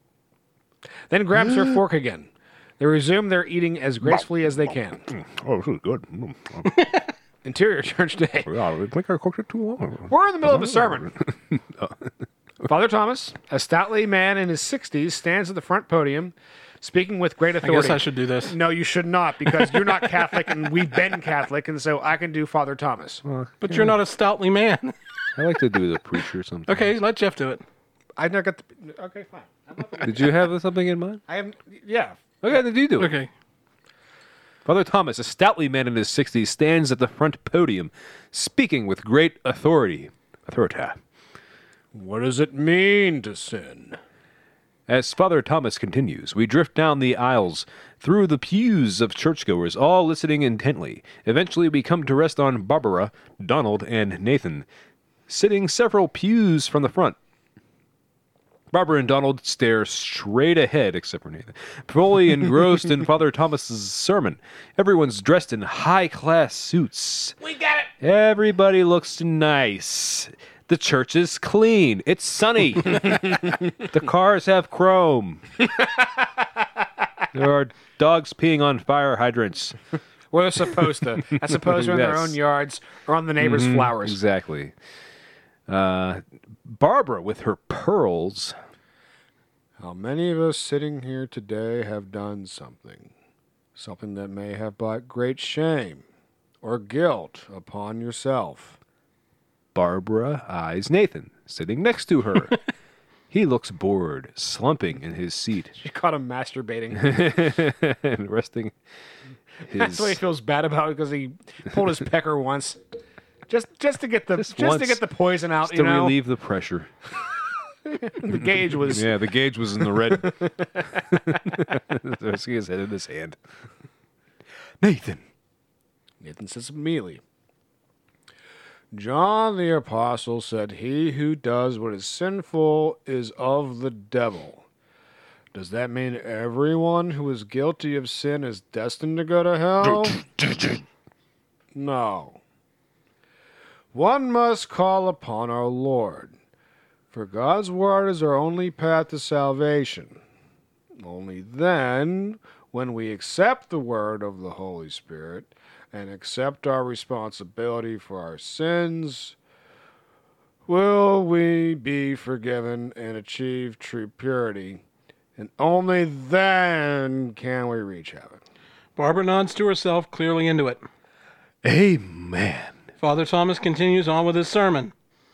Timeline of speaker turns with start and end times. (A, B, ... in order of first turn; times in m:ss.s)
0:01.1-0:05.1 A
0:05.1-0:06.8 B
0:07.4-0:08.6 A
0:08.4-0:12.1 B
0:10.1-0:11.1 A
0:12.6-0:23.2 A
0:17.6-0:18.6 C
0:23.2-0:24.0 B
0:23.6-0:25.0 C
0:25.4-0:26.9 B
0:26.7-0:27.6 C
0:28.2-0:30.5 A
0:30.0-0:31.2 B
0:31.3-0:32.3 A
0:32.4-0:33.1 B
0:33.0-0:33.3 C
0:34.7-0:41.0 B
0:41.9-0:44.0 A
0:44.9-0:54.7 B
0:55.3-0:57.2 B
0:58.7-1:07.4 B
1:07.4-1:07.9 A
1:08.0-1:15.4 B
1:15.8-1:16.3 A
1:17.3-1:19.8 B
1:20.3-1:24.2 A
1:21.4-1:22.4 B
1:23.4-1:24.7 B
1:25.7-1:28.6 B
1:29.8-1:33.1 A
1:33.8-1:36.0 A
1:36.6-1:38.8 A
1:39.8-1:42.6 B
1:43.3-1:45.8 B
1:45.8-1:47.3 A
1:47.0-1:48.8 B
1:49.7-1:50.2 B
1:49.7-1:52.8 A
1:53.5-1:56.2 A
1:54.4-1:55.0 B
1:55.6-1:56.9 B
1:57.2-1:59.1 A
1:58.8-2:03.4 B
2:00.0-2:00.8 A
2:04.8-2:05.2 B
2:06.2-2:07.2 A
2:08.9-2:14.6 A
2:15.5-2:20.2 A
2:21.8-2:22.4 A
2:23.9-2:26.4 A
2:27.1-2:30.2 A
2:31.0-2:39.4 A
2:40.7-2:44.8 A
2:45.4-2:48.4 A
2:49.0-2:50.8 C
2:51.6-2:52.8 B
2:53.0-2:54.9 C